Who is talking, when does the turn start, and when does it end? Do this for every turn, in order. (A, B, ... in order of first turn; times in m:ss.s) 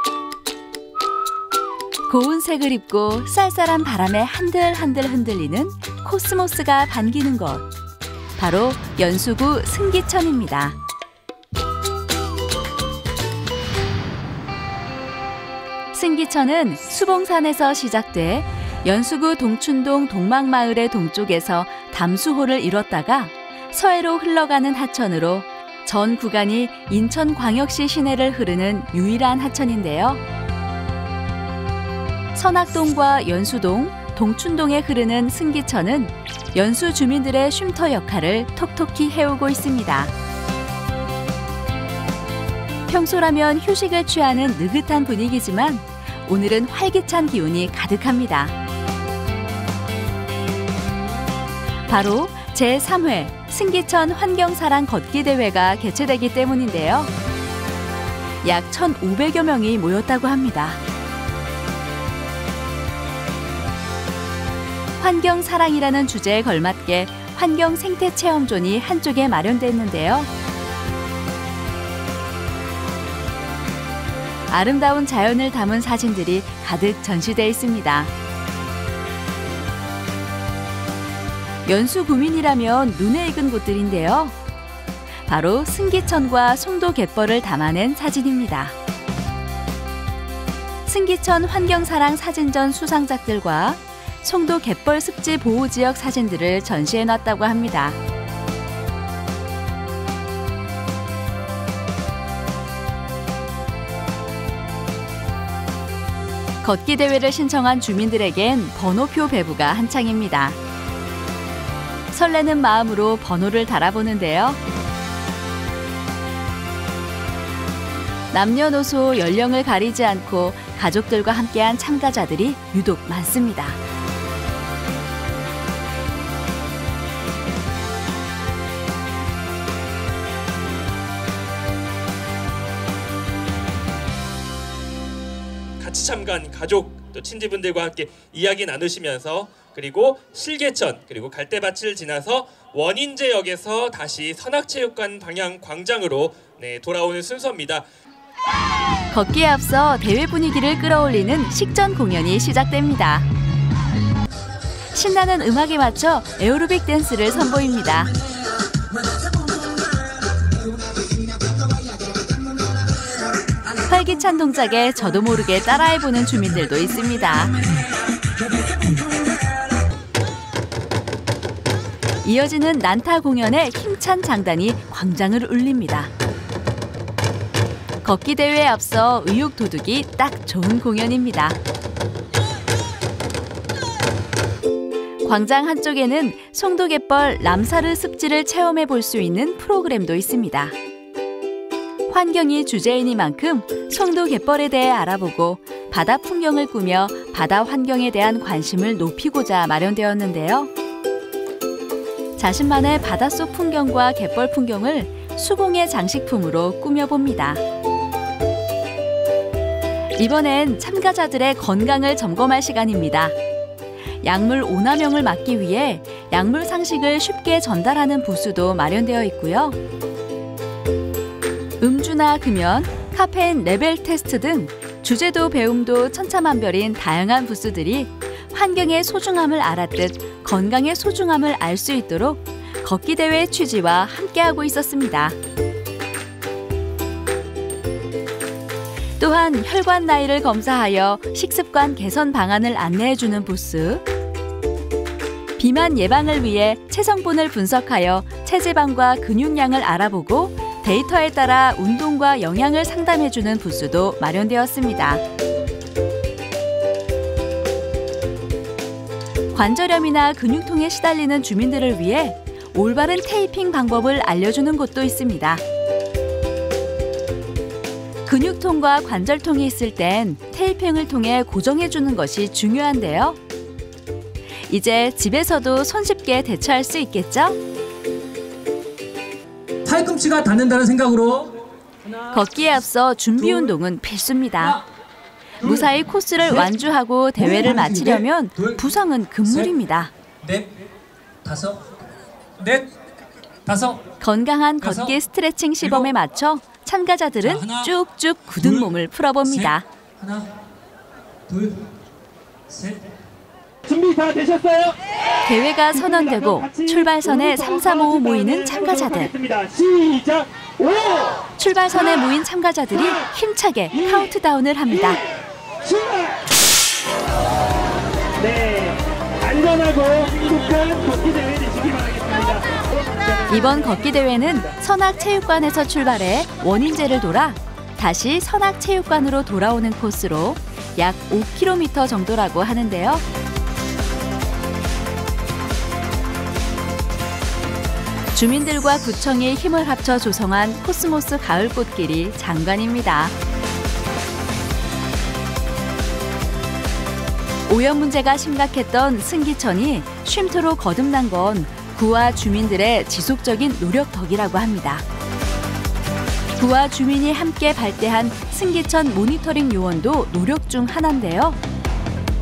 0:02.1-0:07.7 A
0:08.4-0:10.8 A
0:15.9-0:30.2 A
0:32.3-0:40.1 A
0:42.9-0:48.5 A
0:51.9-0:57.1 A
0:58.4-1:00.8 A
1:05.0-1:10.3 A
1:14.5-1:18.1 A
1:21.6-1:24.3 A
1:25.3-1:28.8 A
1:30.9-1:38.0 A
1:46.6-1:50.6 A
1:52.1-1:54.6 A
1:58.3-2:03.8 A
2:15.8-2:27.8 B
2:29.1-2:33.2 A
2:34.9-2:38.1 A
2:43.9-2:47.6 A
2:52.2-2:56.1 A
2:58.0-3:01.6 A
3:05.2-3:10.8 A
3:12.1-3:20.7 A
3:22.4-3:27.6 A
3:30.2-3:33.4 A
3:34.2-3:39.8 A
3:41.8-3:55.4 A
3:59.2-4:04.0 A
4:05.6-4:15.2 A
4:19.5-4:25.6 A
4:28.2-4:33.4 A
4:34.7-4:37.6 A
4:39.8-4:41.5 C
4:42.3-4:44.8 A
4:43.4-4:43.7 C
4:45.6-4:45.9 C
4:45.6-4:50.1 A
4:47.4-4:48.8 C
4:49.4-4:49.7 C
4:50.4-4:50.7 C
4:51.4-4:51.8 C
4:52.6-4:52.9 C
4:53.7-4:54.0 C
4:54.2-4:59.8 A
4:54.8-4:55.2 C
4:55.8-4:56.1 C
4:57.4-4:57.9 C
4:58.6-4:58.9 C
4:59.4-5:00.5 C
5:01.5-5:01.8 C
5:02.7-5:03.0 C
5:03.9-5:04.9 D
5:05.4-5:09.3 A
5:09.4-5:11.3 D
5:11.6-5:15.2 A
5:18.4-5:18.9 D
5:19.5-5:22.6 D
5:23.5-5:33.2 A
5:38.3-5:43.3 A
5:47.7-5:55.0 A
5:56.6-6:01.6 A